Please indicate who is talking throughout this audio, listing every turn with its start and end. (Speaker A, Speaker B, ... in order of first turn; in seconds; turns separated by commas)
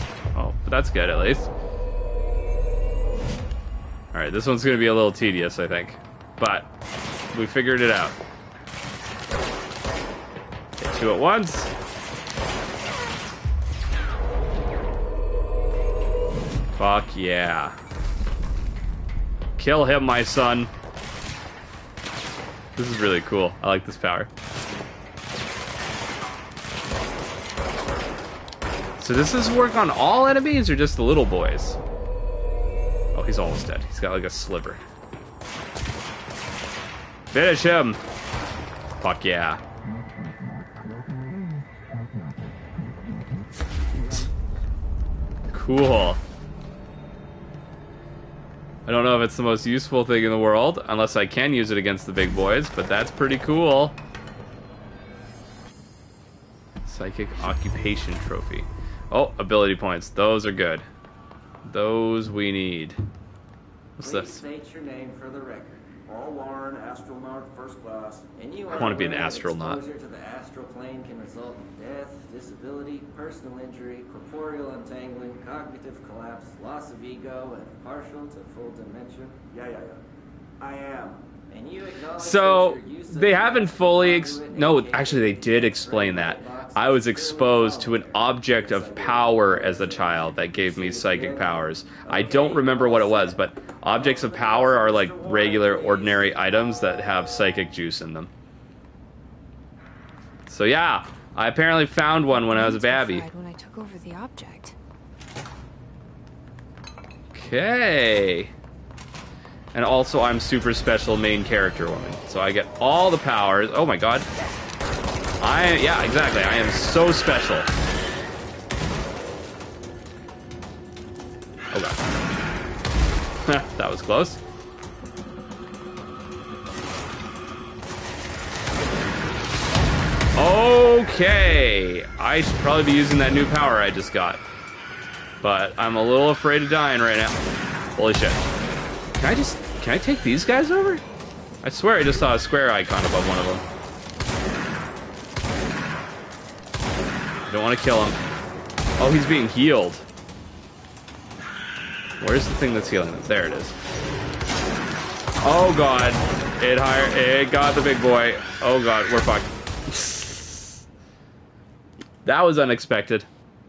Speaker A: 0.3-1.5, Speaker A: 4.1-6.7, Speaker A: 7.3-8.2, Speaker A: 10.8-11.7, Speaker A: 16.8-17.8, Speaker A: 19.6-20.7, Speaker A: 22.8-24.3, Speaker A: 29.0-31.8, Speaker A: 33.1-34.8, Speaker A: 37.3-38.0, Speaker A: 39.0-39.6, Speaker A: 45.5-46.2, Speaker A: 48.9-54.0, Speaker A: 56.9-60.9, Speaker A: 61.6-63.0, Speaker A: 64.0-64.4, Speaker B: 64.0-80.0, Speaker A: 68.7-69.8, Speaker B: 80.6-96.9, Speaker A: 82.2-98.3, Speaker A: 100.5-103.3, Speaker C: 102.3-104.8, Speaker A: 107.3-108.5, Speaker A: 109.7-114.3, Speaker A: 115.4-117.7, Speaker A: 121.7-122.0, Speaker A: 123.5-124.4, Speaker A: 130.3-134.4, Speaker A: 135.4-137.4, Speaker A: 138.0-138.4, Speaker A: 139.2-141.0, Speaker A: 141.6-143.7, Speaker A: 147.5-148.2, Speaker A: 149.0-150.1, Speaker A: 152.2-153.8, Speaker A: 155.4-160.8, Speaker A: 162.2-163.3